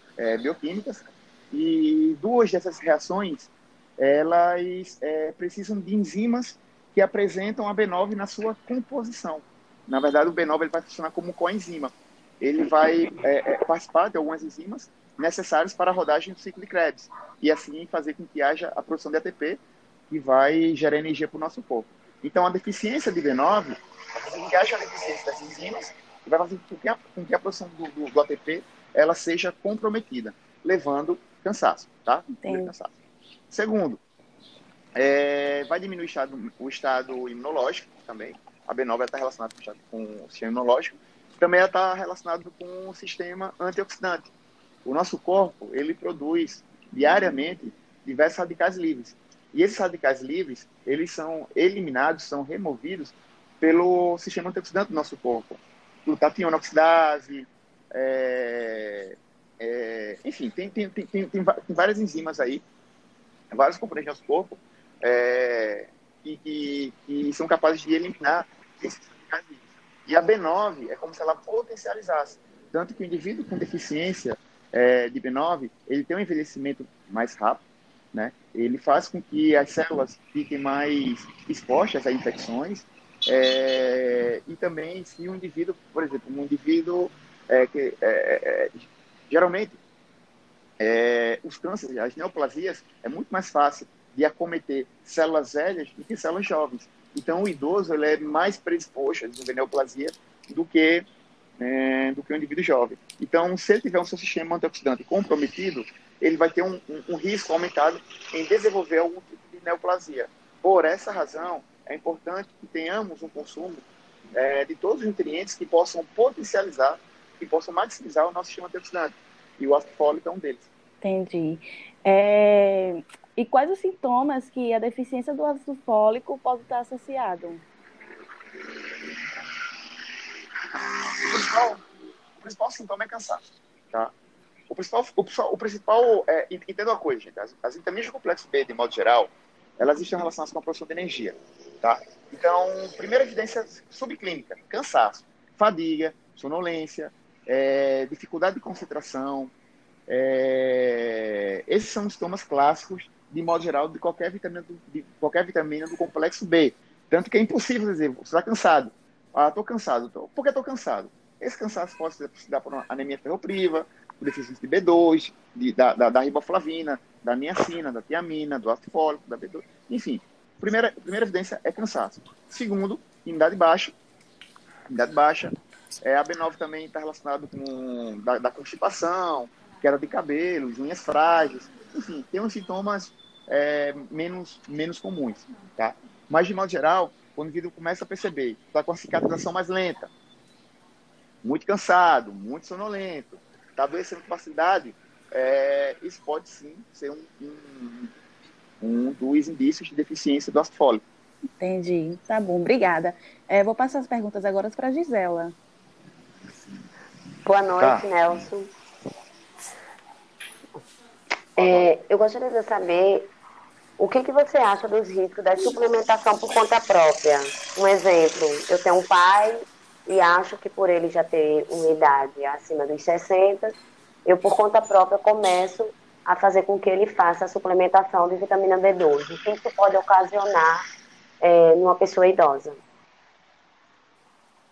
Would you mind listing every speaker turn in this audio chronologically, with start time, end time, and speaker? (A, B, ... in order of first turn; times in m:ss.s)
0:00.2-0:32.9 A
0:32.4-0:32.7 B
0:33.5-0:34.0 A
0:35.0-0:44.3 A
0:44.8-1:02.6 A
1:03.5-1:29.8 A
1:30.8-1:41.0 A
1:41.6-2:00.7 A
2:01.0-2:07.6 B
2:11.2-2:11.8 A
2:12.4-2:14.1 A
2:14.7-2:29.5 A
2:30.1-2:53.9 A
2:54.9-3:10.1 A
3:11.4-3:18.1 A
3:18.8-3:21.0 A
3:21.6-3:25.5 B
3:27.4-3:28.7 C
3:27.8-3:28.0 A
3:31.6-3:33.3 C
3:31.6-3:31.9 A
3:34.0-3:50.8 C
3:51.4-3:52.8 C